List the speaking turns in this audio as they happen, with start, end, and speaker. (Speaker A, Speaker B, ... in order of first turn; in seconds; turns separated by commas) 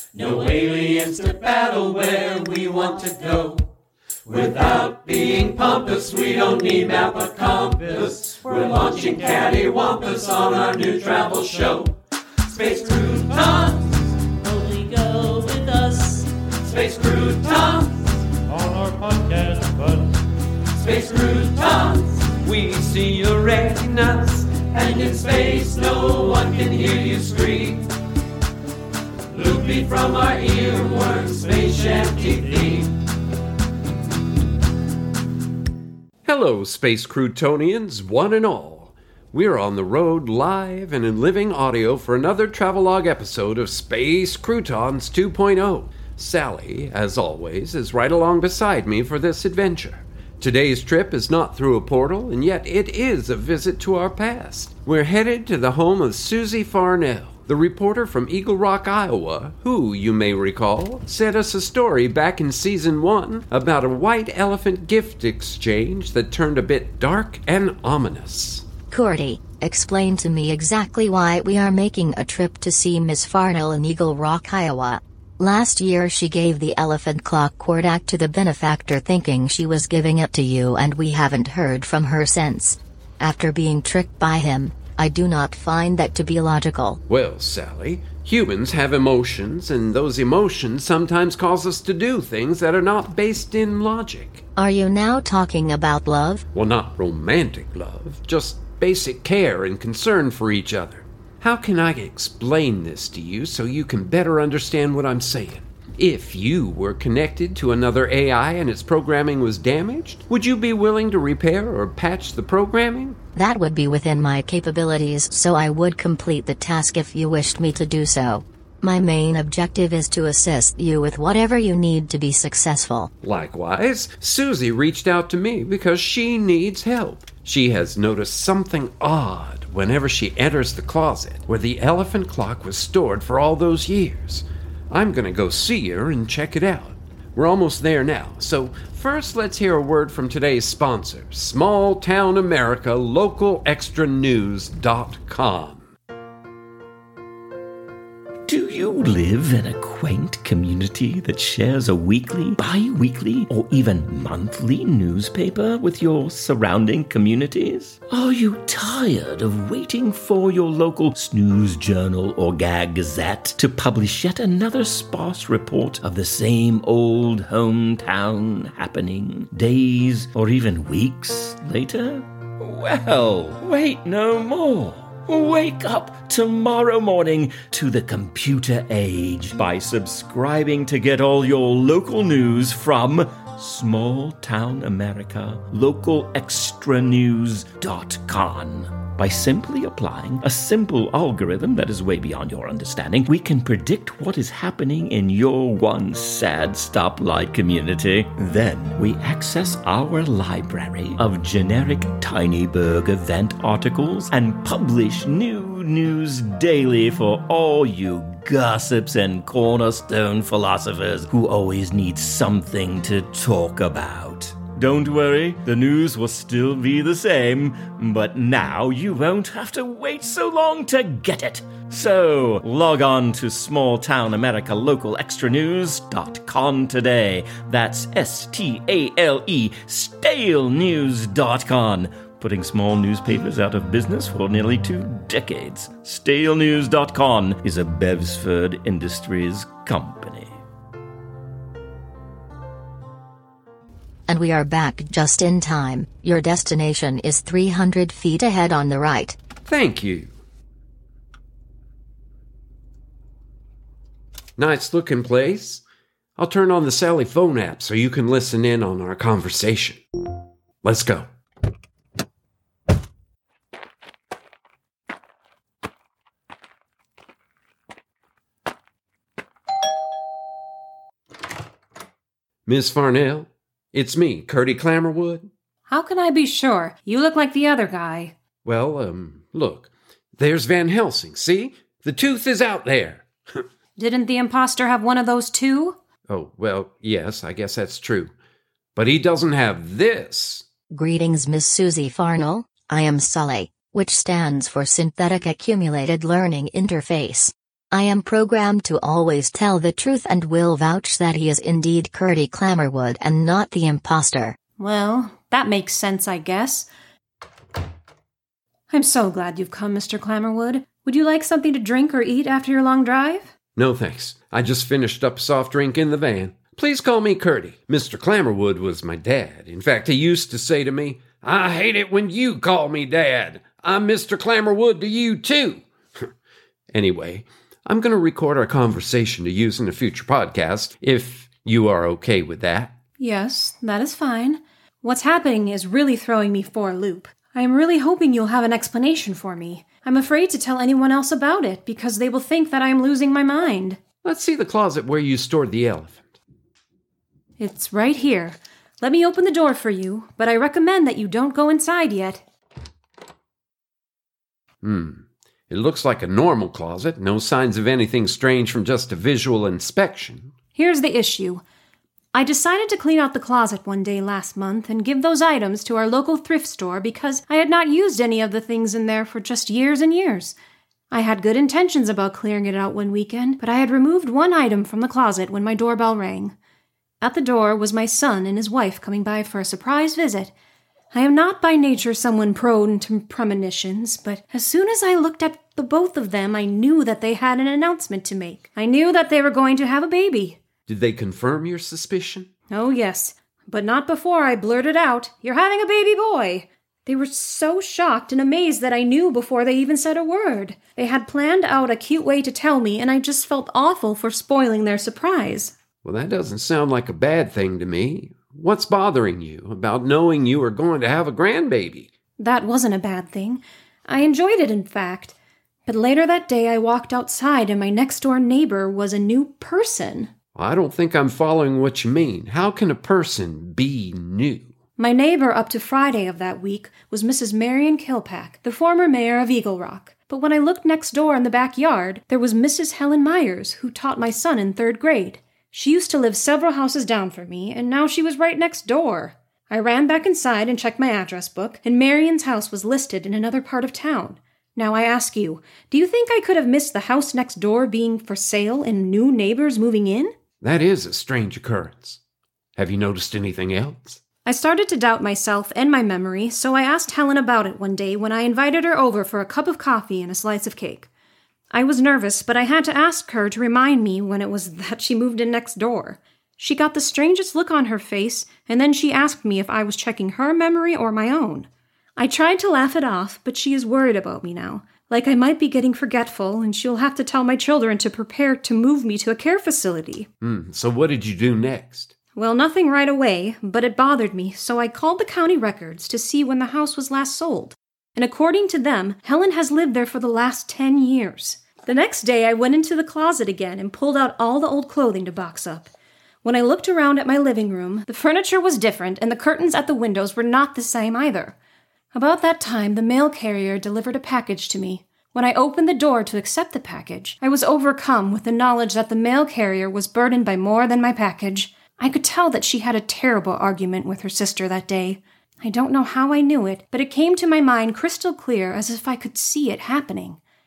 Speaker A: 0.1-3.6, Speaker A: 4.3-11.9, Speaker A: 12.5-13.9, Speaker A: 14.5-18.0, Speaker A: 18.9-19.8, Speaker A: 20.7-22.4, Speaker B: 22.4-24.6, Speaker A: 24.6-27.8, Speaker A: 29.3-32.9, Speaker B: 36.2-68.7, Speaker C: 68.9-87.0, Speaker B: 87.1-94.4, Speaker C: 94.6-96.4, Speaker B: 96.5-113.2, Speaker C: 113.4-123.1, Speaker B: 123.2-145.9, Speaker D: 148.5-240.5, Speaker C: 244.3-249.4, Speaker B: 249.7-250.3, Speaker B: 254.6-255.8, Speaker B: 256.4-260.0, Speaker B: 260.8-261.3, Speaker B: 272.7-275.5, Speaker E: 275.9-278.4, Speaker B: 278.6-283.6, Speaker E: 284.0-286.0, Speaker B: 286.3-288.3, Speaker B: 288.9-290.7, Speaker C: 290.9-304.6, Speaker E: 304.8-306.9, Speaker E: 308.9-313.5, Speaker B: 313.8-325.9, Speaker B: 326.9-332.9, Speaker E: 333.2-344.0, Speaker B: 344.2-346.2, Speaker E: 347.6-352.4, Speaker B: 354.8-360.5, Speaker E: 360.8-361.6, Speaker E: 362.3-370.6, Speaker E: 371.1-376.6, Speaker E: 377.2-380.5, Speaker E: 381.1-390.6, Speaker B: 390.9-392.5, Speaker E: 392.7-405.7, Speaker B: 406.0-412.1, Speaker E: 412.4-415.4, Speaker E: 415.9-420.3, Speaker B: 420.6-424.7, Speaker E: 425.0-450.3, Speaker B: 450.6-452.2, Speaker B: 452.8-454.2, Speaker E: 454.4-461.1, Speaker E: 461.7-480.3, Speaker B: 480.4-482.1, Speaker E: 482.4-495.9, Speaker E: 496.4-501.6, Speaker E: 502.1-520.4